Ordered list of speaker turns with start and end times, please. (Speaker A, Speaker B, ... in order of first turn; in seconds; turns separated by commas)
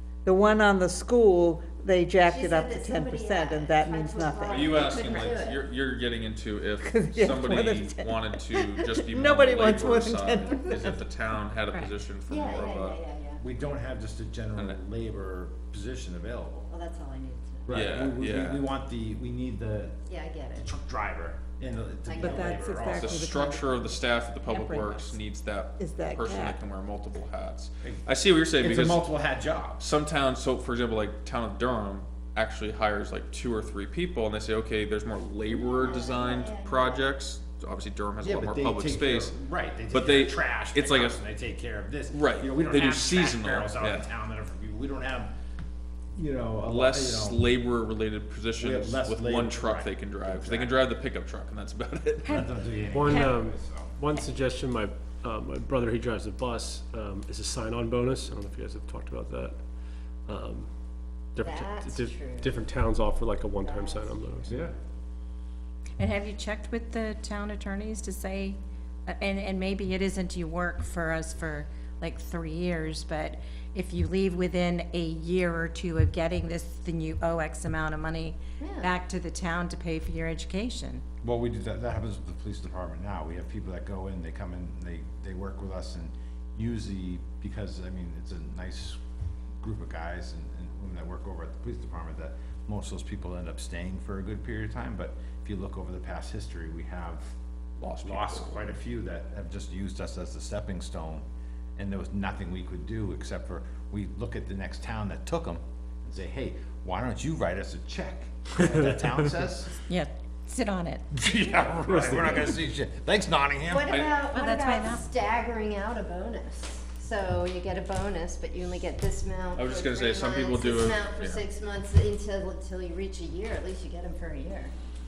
Speaker A: 0.2-5.0, Speaker B: 2.2-5.6, Speaker C: 4.5-13.0, Speaker A: 6.8-10.9, Speaker B: 12.3-13.4, Speaker D: 13.4-16.7, Speaker B: 16.7-17.9, Speaker D: 17.6-20.0, Speaker C: 17.7-18.6, Speaker B: 20.1-20.7, Speaker D: 20.6-23.3, Speaker B: 22.1-22.8, Speaker A: 22.2-23.9, Speaker C: 22.9-29.1, Speaker A: 24.5-25.0, Speaker A: 25.8-26.6, Speaker D: 27.8-29.8, Speaker C: 29.8-39.3, Speaker B: 35.5-37.1, Speaker D: 38.2-45.3, Speaker C: 39.9-41.2, Speaker C: 42.1-44.1, Speaker D: 46.1-47.4, Speaker C: 46.6-52.5, Speaker D: 48.6-50.8, Speaker E: 52.2-53.3, Speaker D: 52.3-53.9, Speaker F: 52.9-59.6, Speaker F: 60.2-60.7, Speaker F: 61.3-64.7, Speaker B: 61.4-62.7, Speaker B: 63.5-64.5, Speaker E: 66.0-81.0, Speaker B: 78.6-78.9, Speaker D: 81.2-89.0, Speaker D: 89.6-97.3, Speaker C: 97.8-98.6, Speaker D: 98.0-101.2, Speaker D: 101.8-109.8, Speaker E: 109.9-111.0, Speaker D: 111.1-114.0, Speaker F: 111.9-112.4, Speaker B: 113.7-124.7, Speaker C: 113.9-114.2, Speaker E: 114.3-115.1, Speaker C: 119.5-121.5